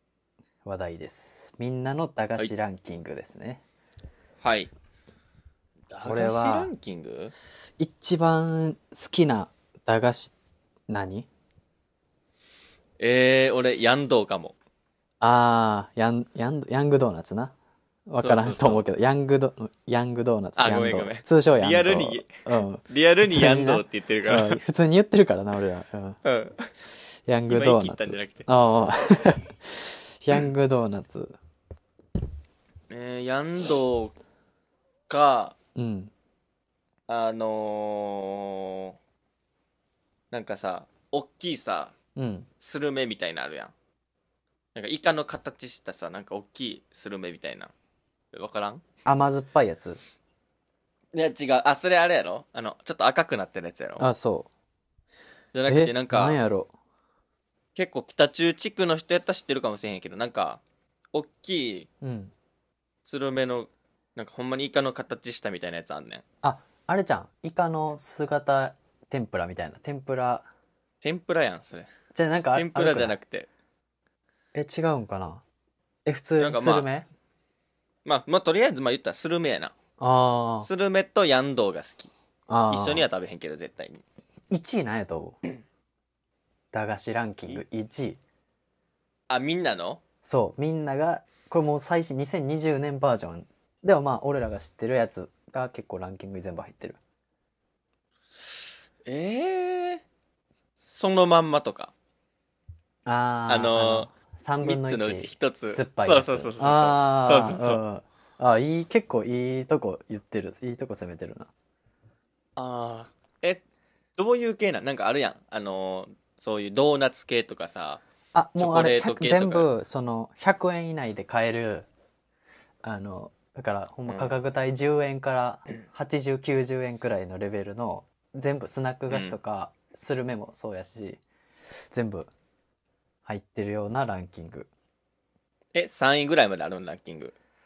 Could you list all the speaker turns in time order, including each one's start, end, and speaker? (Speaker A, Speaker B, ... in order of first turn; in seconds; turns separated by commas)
Speaker A: 0.6-3.6, Speaker B: 4.4-4.7, Speaker B: 5.9-7.3, Speaker A: 6.0-6.7, Speaker A: 7.8-10.3, Speaker A: 10.9-11.3, Speaker B: 13.0-14.5, Speaker A: 15.2-17.5, Speaker A: 18.1-26.2, Speaker B: 18.2-18.8, Speaker B: 20.6-22.3, Speaker B: 22.9-24.6, Speaker B: 26.2-26.7, Speaker A: 27.3-31.4, Speaker B: 27.5-28.5, Speaker B: 32.9-34.1, Speaker B: 35.1-35.5, Speaker A: 35.8-36.1, Speaker B: 37.1-39.0, Speaker B: 40.3-41.9, Speaker A: 42.1-42.5, Speaker B: 42.6-43.7, Speaker B: 44.7-47.7, Speaker B: 48.3-48.8, Speaker A: 49.0-50.0, Speaker B: 51.1-54.1, Speaker A: 54.0-54.5, Speaker B: 55.5-56.4, Speaker A: 55.7-56.7, Speaker B: 57.7-60.6, Speaker B: 61.1-61.9, Speaker A: 62.0-62.3, Speaker B: 63.0-66.2, Speaker A: 66.4-70.5, Speaker B: 71.0-71.9, Speaker A: 72.1-73.2, Speaker B: 72.5-73.5, Speaker A: 74.5-75.4, Speaker A: 76.0-77.1, Speaker B: 76.4-76.9, Speaker B: 78.0-79.7, Speaker A: 80.0-80.7, Speaker B: 80.6-82.1, Speaker A: 82.5-83.0, Speaker B: 82.7-84.0, Speaker A: 84.5-85.4, Speaker A: 86.7-88.2, Speaker B: 89.3-90.0, Speaker A: 90.2-97.0, Speaker B: 99.0-100.0, Speaker B: 100.8-101.9, Speaker A: 103.0-111.5, Speaker B: 103.5-104.1, Speaker B: 104.6-107.8, Speaker B: 112.6-113.6, Speaker B: 114.2-118.0, Speaker A: 118.3-121.9, Speaker B: 118.6-119.7, Speaker A: 122.8-131.2, Speaker B: 124.1-124.3, Speaker B: 129.1-129.4, Speaker A: 131.9-132.3, Speaker A: 133.2-134.7, Speaker B: 135.7-137.3